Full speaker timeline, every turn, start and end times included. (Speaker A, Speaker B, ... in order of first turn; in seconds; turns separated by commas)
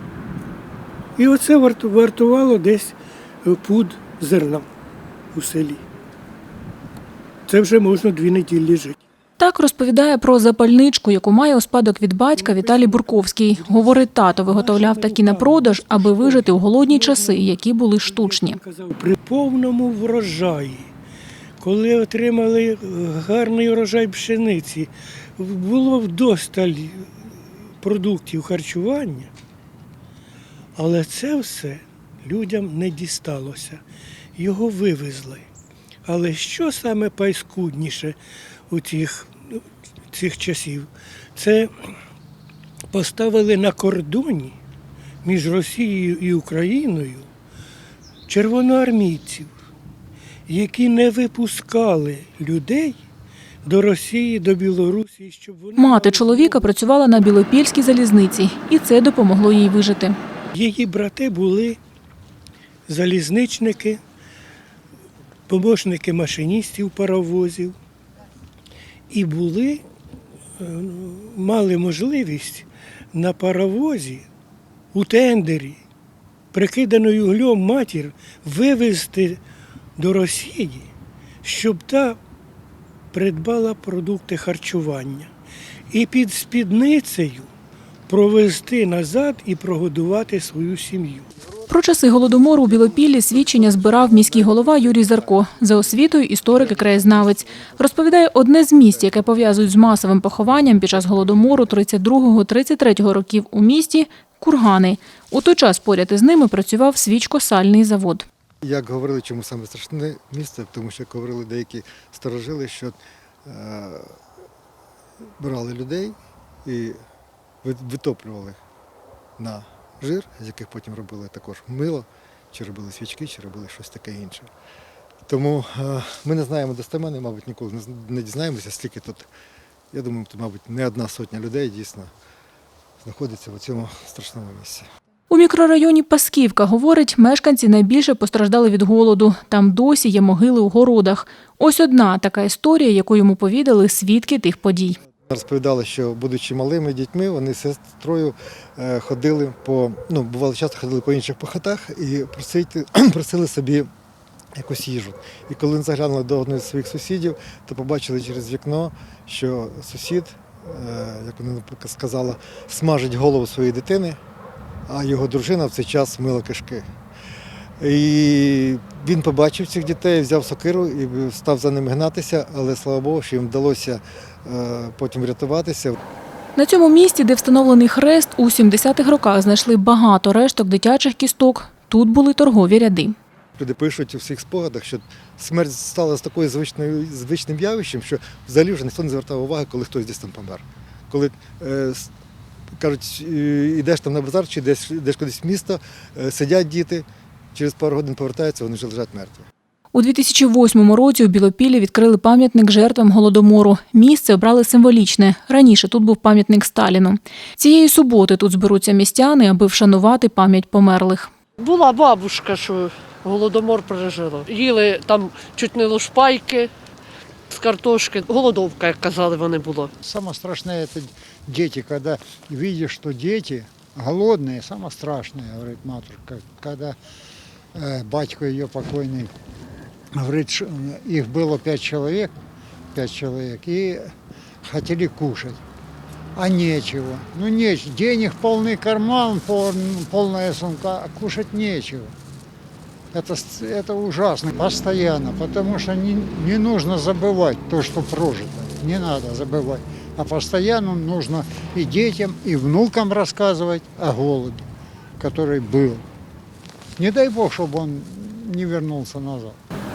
Speaker A: 1.2-4.7, Speaker A: 5.3-5.8, Speaker A: 7.5-9.0, Speaker B: 9.4-18.6, Speaker A: 12.3-20.9, Speaker A: 21.6-27.1, Speaker A: 27.8-29.3, Speaker A: 30.8-33.8, Speaker A: 34.4-35.5, Speaker A: 36.0-38.2, Speaker A: 38.7-39.3, Speaker A: 40.1-41.7, Speaker A: 42.9-44.6, Speaker A: 45.2-47.3, Speaker A: 48.3-49.5, Speaker A: 50.5-53.0, Speaker A: 53.6-56.7, Speaker B: 55.8-60.2, Speaker A: 60.5-61.8, Speaker A: 62.9-64.0, Speaker A: 65.5-67.7, Speaker A: 69.1-69.8, Speaker A: 70.6-74.2, Speaker A: 74.9-75.8, Speaker A: 76.5-79.4, Speaker A: 80.0-80.9, Speaker A: 81.4-82.2, Speaker A: 83.1-85.3, Speaker A: 85.9-87.5, Speaker A: 88.1-91.3, Speaker B: 91.7-108.2, Speaker C: 94.1-95.9, Speaker C: 96.6-97.8, Speaker C: 108.6-114.2, Speaker C: 115.4-117.0, Speaker C: 117.6-118.6, Speaker C: 119.4-124.5, Speaker C: 125.3-129.3, Speaker C: 129.9-132.1, Speaker C: 133.0-134.9, Speaker B: 135.3-145.0, Speaker C: 145.2-153.9, Speaker C: 154.5-164.2, Speaker C: 164.9-166.8, Speaker C: 167.8-175.9, Speaker B: 176.6-183.2, Speaker C: 183.6-192.1, Speaker C: 192.8-199.5, Speaker B: 199.9-211.3, Speaker D: 211.6-216.7, Speaker D: 217.5-219.9, Speaker E: 220.0-227.0, Speaker E: 227.7-229.3, Speaker E: 230.1-232.3, Speaker E: 232.9-235.6, Speaker E: 236.3-242.2, Speaker E: 243.1-254.7, Speaker E: 255.2-256.1, Speaker E: 257.0-259.6